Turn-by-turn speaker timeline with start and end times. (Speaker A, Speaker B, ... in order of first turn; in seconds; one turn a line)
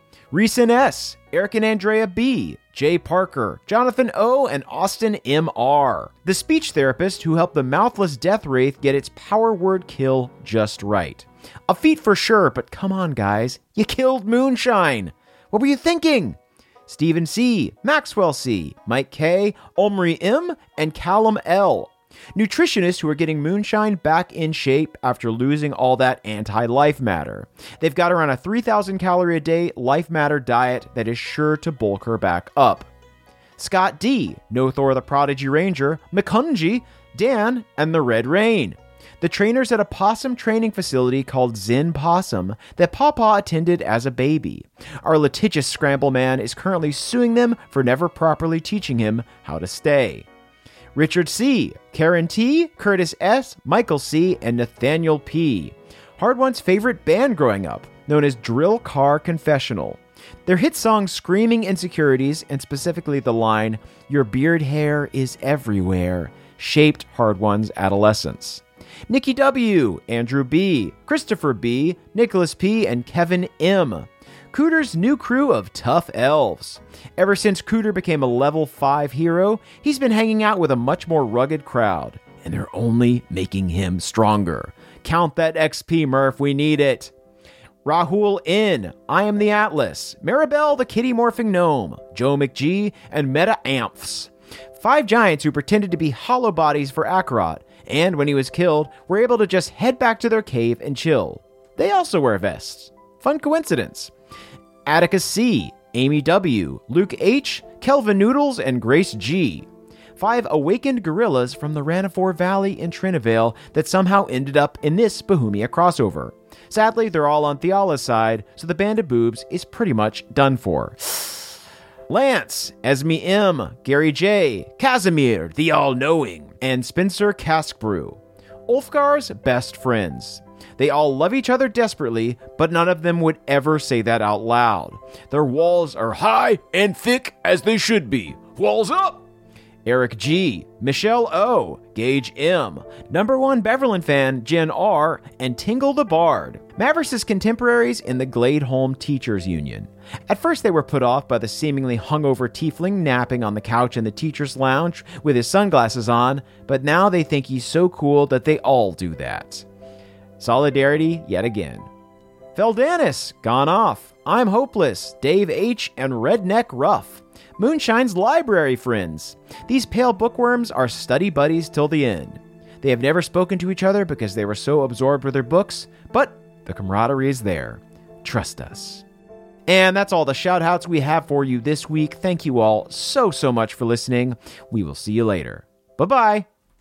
Speaker A: 0.3-32.9
Speaker A: 33.6-50.3
Speaker A: 50.9-87.1
Speaker A: 87.8-104.1
Speaker A: 104.8-121.5
Speaker A: 122.1-139.2
Speaker A: 139.8-159.7
Speaker A: 160.4-161.8
Speaker A: 162.6-179.0
Speaker A: 179.7-186.5